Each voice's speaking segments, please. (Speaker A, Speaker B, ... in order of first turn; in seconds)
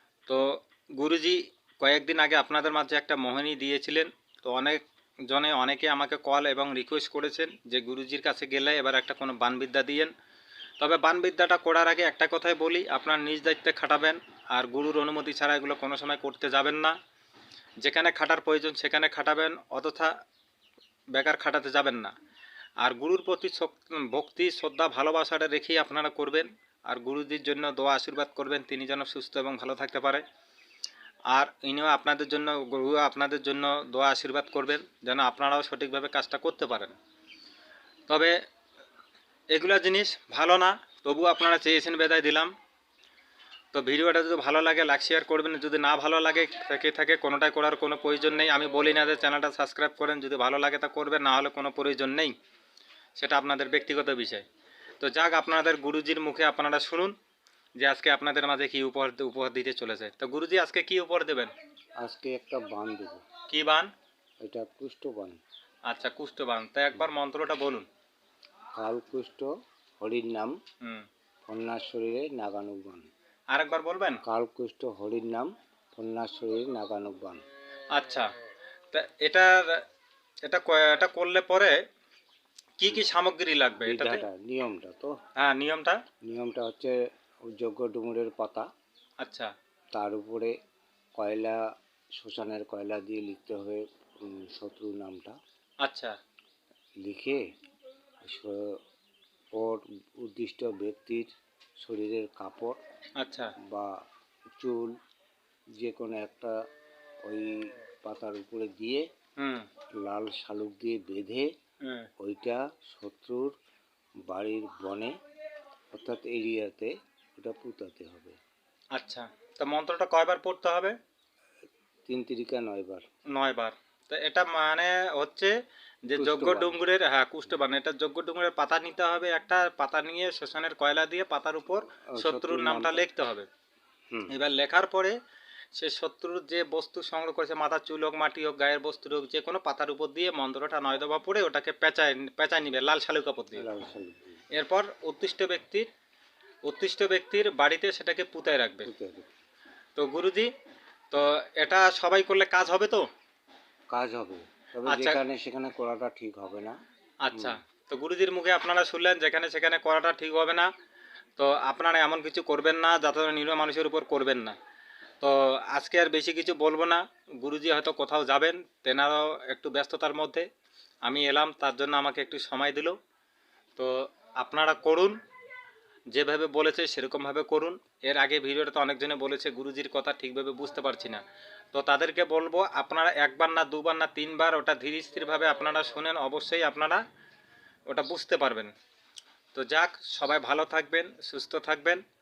Speaker A: 0.3-10.1, 10.8-17.0, 17.8-20.1, 21.1-22.1, 22.8-30.2, 31.3-37.0, 38.1-38.4, 39.5-42.5, 43.7-52.3, 53.2-54.5, 55.0-57.1, 57.8-61.5, 63.5-63.9, 65.9-67.9, 73.5-74.2, 77.9-78.3, 78.9-79.8, 80.4-81.8, 82.8-84.2, 85.4-86.0, 89.2-89.5, 95.8-96.2, 103.2-103.5, 109.4-109.7, 111.8-112.1, 118.9-121.0, 123.3-125.5, 126.1-133.5, 134.3-135.2, 135.8-143.7, 144.5-145.9, 146.6-148.9, 150.0-150.5, 151.1-153.1, 154.9-155.2, 157.2-160.7, 161.4-164.6, 165.2-170.5, 171.1-173.0, 173.8-175.2, 176.1-181.2, 181.7-187.0, 187.9-188.7, 189.5-192.0
Speaker B: 62.0-63.2, 64.4-65.4, 68.8-69.5, 70.0-70.5, 71.5-73.1, 74.2-77.4, 83.8-85.1, 86.3-88.7, 89.9-90.5, 91.2-91.6, 92.2-95.4, 97.0-97.4, 98.2-98.7, 99.6-101.3, 101.8-102.8, 103.7-103.9, 104.6-104.9, 105.8-106.5, 107.3-109.0, 110.0-111.5, 112.2-113.5, 114.3-115.1, 115.9-118.4, 122.1-123.0, 126.2-126.8, 132.1-133.0, 143.6-144.4, 148.8-149.3, 153.9-156.8, 157.3-157.6